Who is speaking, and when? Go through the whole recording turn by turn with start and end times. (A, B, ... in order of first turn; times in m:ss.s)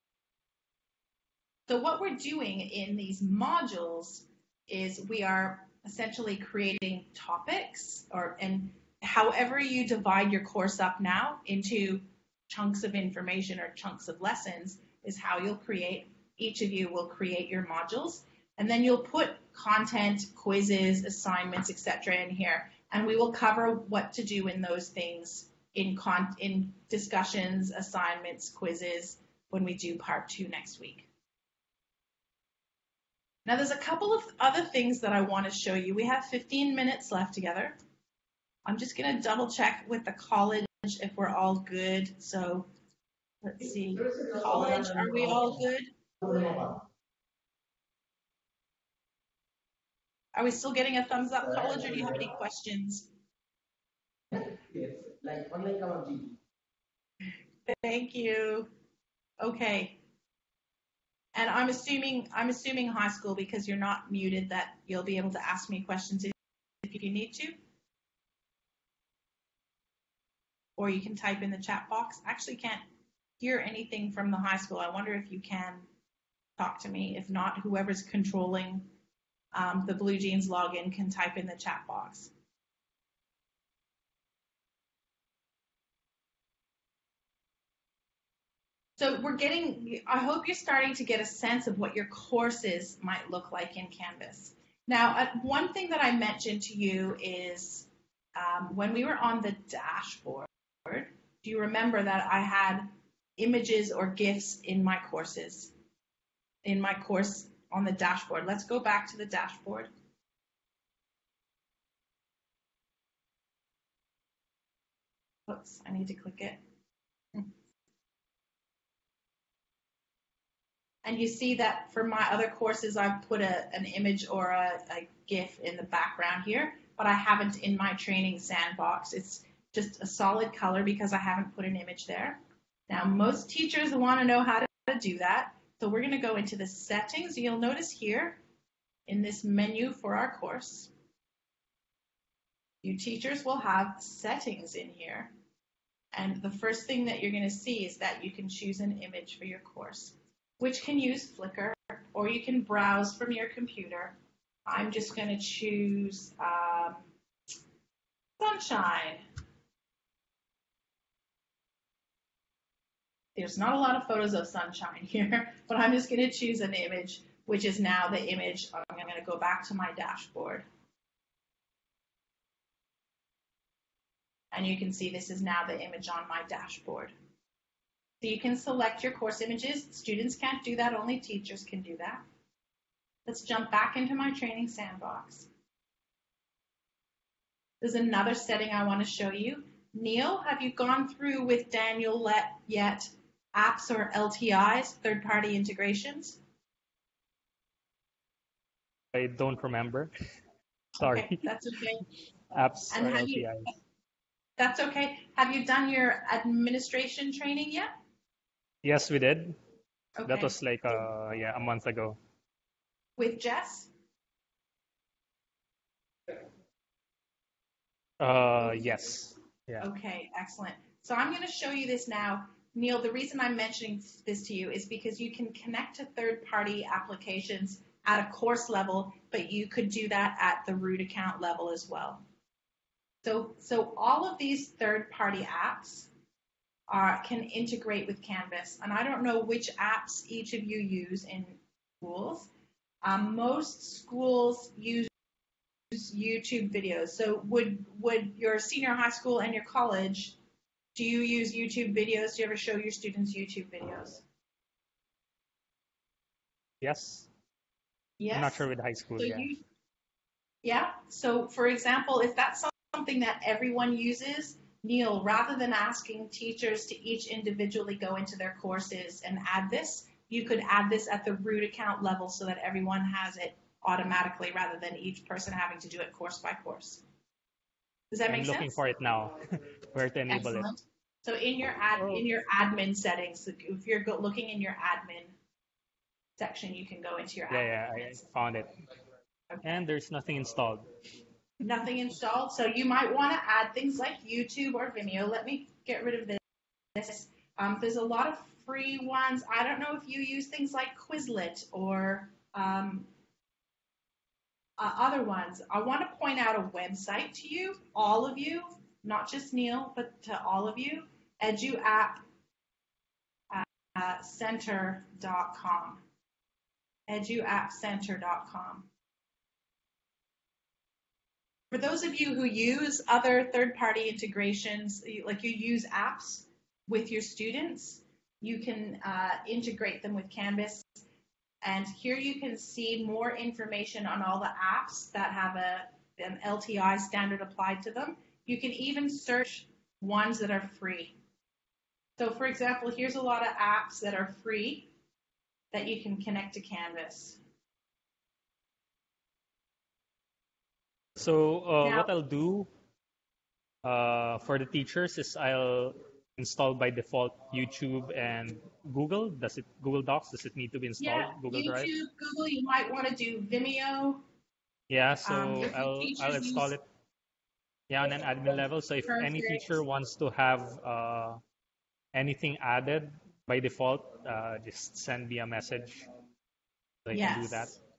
0:01.7-0:31.1 A
0:33.4-0:37.7 A
0:38.6-0:42.7 A
0:43.4-0:46.5 A
0:50.3-0:53.1 A
0:57.6-0:58.7 A
0:59.4-1:00.0 A
1:01.3-1:07.6 A
1:10.8-1:12.8 A
1:13.4-1:15.8 A
1:16.6-1:18.9 A
1:19.5-1:22.3 A
1:29.0-1:45.7 A
1:46.6-1:49.9 A
1:55.5-1:56.6 A
2:01.0-2:18.4 A
2:19.1-2:20.9 A
2:22.8-2:25.3 A
2:26.1-2:37.1 A
2:38.4-2:39.2 A
2:43.4-2:50.6 A
2:54.5-2:57.1 A
2:58.2-3:02.2 A
3:03.2-3:05.5 A
3:07.8-3:16.4 A
3:19.1-3:20.1 B
3:21.0-3:21.5 B
3:21.0-3:22.1 A
3:22.5-3:23.7 B
3:22.9-3:23.5 A
3:24.6-3:27.9 A
3:28.8-3:29.6 B
3:30.2-3:31.0 A
3:30.2-3:32.2 B
3:33.2-3:33.9 A
3:38.2-3:39.9 B
3:38.6-3:39.1 A
3:39.8-3:52.2 A
3:53.2-3:56.1 A
3:56.9-4:02.5 A
4:03.0-4:05.1 A
4:05.9-4:10.4 A
4:10.9-4:14.2 A
4:16.8-4:17.3 B
4:18.2-4:18.6 A
4:18.3-4:19.5 B
4:19.2-4:19.6 A
4:20.6-4:37.0 A
4:38.1-4:38.8 A
4:38.3-4:40.7 B
4:40.3-4:45.3 A
4:42.0-4:42.2 B
4:46.4-4:48.2 A
4:47.5-4:48.8 B
4:49.6-4:51.0 B
4:51.6-4:56.4 A
4:56.9-5:03.1 A
5:04.8-5:12.2 A
5:13.5-5:16.0 A
5:17.1-5:18.9 A
5:21.7-5:31.0 A
5:31.6-5:41.1 A
5:42.2-5:44.9 A
5:45.7-5:47.4 A
5:51.2-5:52.7 B
5:51.8-5:52.1 A
5:53.8-6:01.9 B
6:01.0-6:04.2 A
6:04.9-6:06.8 B
6:05.2-6:06.7 A
6:07.9-6:11.4 B
6:09.0-6:09.8 A
6:12.1-6:16.0 B
6:17.0-6:17.8 B
6:17.1-6:17.8 A